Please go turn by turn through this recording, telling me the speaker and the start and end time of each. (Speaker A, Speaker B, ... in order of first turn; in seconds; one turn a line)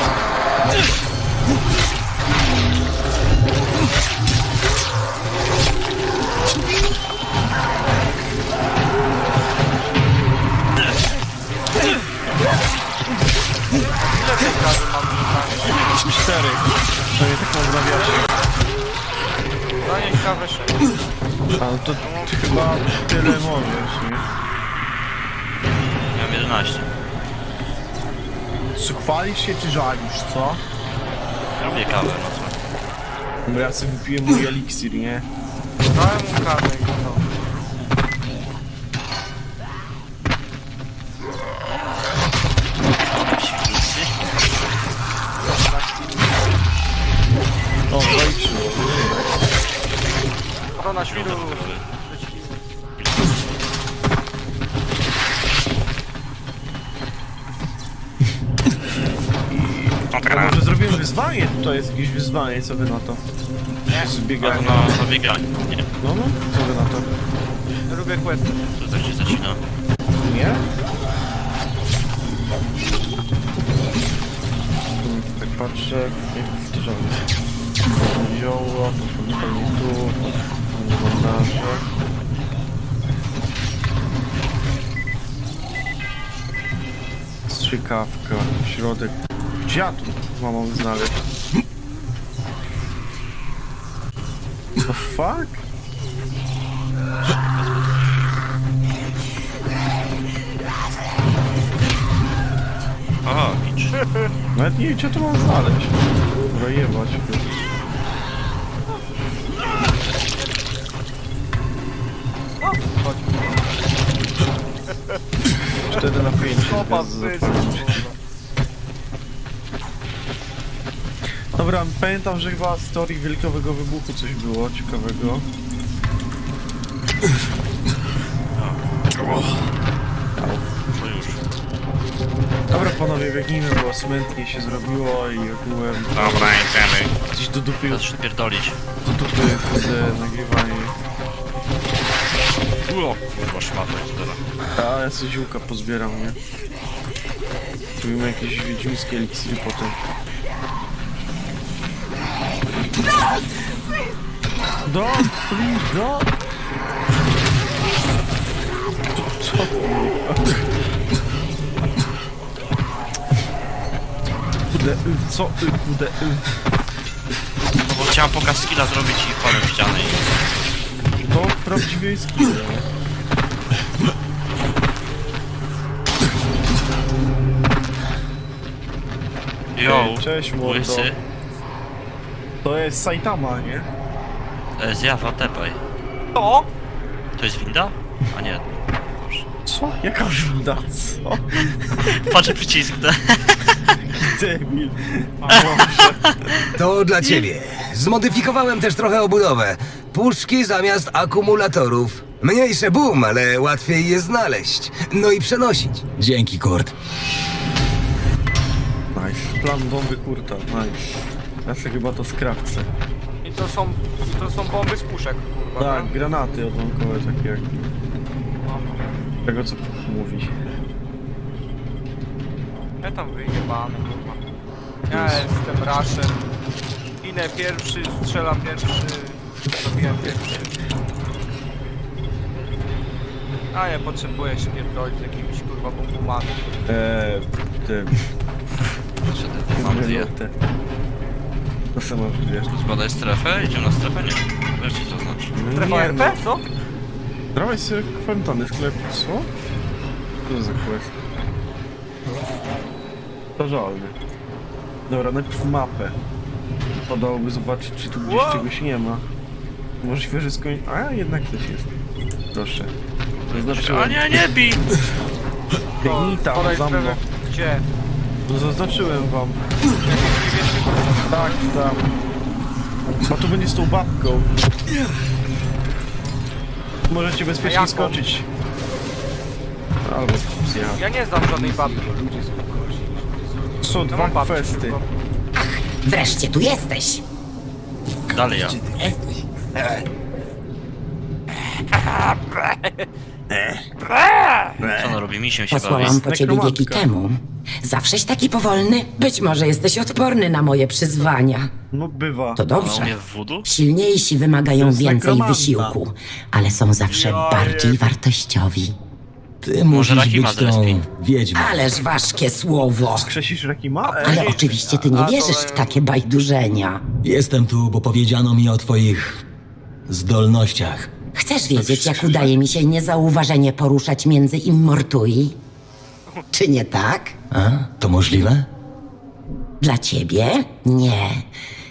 Speaker A: 13.9-15.8
Speaker B: 16.1-18.3
Speaker A: 19.8-20.8
Speaker B: 21.6-24.2
Speaker A: 22.0-22.6
Speaker C: 26.1-26.9
Speaker B: 28.8-30.6
Speaker A: 31.6-32.0
Speaker C: 31.6-32.5
Speaker B: 33.5-35.2
Speaker A: 35.9-37.3
Speaker C: 43.0-44.1
Speaker A: 45.5-45.8
Speaker B: 47.9-49.4
Speaker A: 50.8-52.6
Speaker C: 51.1-51.8
Speaker C: 53.0-53.4
Speaker B: 59.5-63.2
Speaker C: 60.1-60.6
Speaker A: 63.9-64.7
Speaker B: 64.0-64.9
Speaker C: 64.4-65.9
Speaker B: 66.0-67.1
Speaker A: 67.9-68.6
Speaker C: 68.8-69.6
Speaker B: 70.2-70.7
Speaker B: 75.0-77.3
Speaker B: 77.8-80.2
Speaker B: 80.7-81.9
Speaker B: 87.5-91.2
Speaker B: 94.8-95.6
Speaker C: 97.2-98.3
Speaker C: 103.2-104.0
Speaker B: 104.5-105.9
Speaker B: 106.5-107.5
Speaker A: 112.6-113.6
Speaker B: 115.8-118.0
Speaker A: 115.9-118.2
Speaker B: 121.5-125.5
Speaker B: 130.4-130.7
Speaker C: 130.9-131.4
Speaker B: 132.7-136.6
Speaker C: 136.1-137.2
Speaker B: 137.3-138.0
Speaker C: 137.9-138.8
Speaker B: 139.0-140.9
Speaker C: 142.9-144.4
Speaker B: 144.8-146.4
Speaker B: 148.0-150.0
Speaker B: 154.8-156.3
Speaker B: 159.1-160.5
Speaker B: 164.7-166.5
Speaker C: 167.9-170.4
Speaker B: 171.2-172.8
Speaker C: 179.7-181.2
Speaker B: 179.8-181.1
Speaker B: 182.6-183.9
Speaker C: 184.8-185.8
Speaker A: 186.3-186.7
Speaker C: 187.4-189.4
Speaker B: 189.7-191.8
Speaker C: 192.1-193.8
Speaker B: 194.1-196.7
Speaker A: 195.4-195.8
Speaker C: 195.8-196.1
Speaker D: 196.8-206.0
Speaker E: 206.2-206.9
Speaker B: 209.1-211.1
Speaker B: 211.6-212.9
Speaker A: 213.4-216.1
Speaker B: 215.8-217.8
Speaker A: 218.6-219.1
Speaker B: 219.4-220.5
Speaker A: 223.0-224.4
Speaker B: 225.1-225.4
Speaker A: 225.1-226.4
Speaker A: 227.2-230.8
Speaker B: 230.2-230.5
Speaker A: 233.7-236.6
Speaker B: 236.9-238.2
Speaker C: 239.2-240.3
Speaker B: 239.8-240.5
Speaker B: 241.9-242.7
Speaker C: 242.7-245.5
Speaker B: 245.5-246.4
Speaker A: 245.7-246.6
Speaker B: 247.5-249.5
Speaker B: 250.5-251.1
Speaker B: 253.6-254.2
Speaker B: 255.1-256.1
Speaker B: 257.1-259.2
Speaker A: 258.2-258.7
Speaker B: 260.0-261.9
Speaker B: 262.5-262.9
Speaker C: 263.5-264.8
Speaker B: 263.5-264.2
Speaker B: 266.0-267.2
Speaker A: 266.0-267.8
Speaker B: 268.5-269.6
Speaker A: 270.0-271.6
Speaker B: 271.3-272.1
Speaker B: 273.3-274.5
Speaker B: 277.1-278.4
Speaker A: 277.6-278.2
Speaker B: 280.0-281.1
Speaker A: 281.0-282.1
Speaker B: 283.8-285.0
Speaker A: 284.1-285.1
Speaker F: 285.5-287.2
Speaker C: 288.3-288.8
Speaker B: 288.7-289.1
Speaker B: 293.5-293.8
Speaker B: 294.8-295.2
Speaker C: 294.8-296.2
Speaker F: 295.7-301.7
Speaker B: 296.2-297.0
Speaker B: 301.9-302.6
Speaker F: 302.6-308.9
Speaker C: 302.7-303.7
Speaker B: 304.8-306.0
Speaker A: 307.1-308.0
Speaker E: 309.6-311.9
Speaker C: 309.9-311.0
Speaker F: 311.5-313.3
Speaker B: 313.1-314.6
Speaker A: 314.0-316.0
Speaker F: 314.2-317.0
Speaker E: 317.2-319.4
Speaker E: 320.1-321.1
Speaker F: 321.3-325.6
Speaker B: 321.8-322.5
Speaker F: 326.5-327.4
Speaker E: 327.5-328.7
Speaker F: 329.8-331.5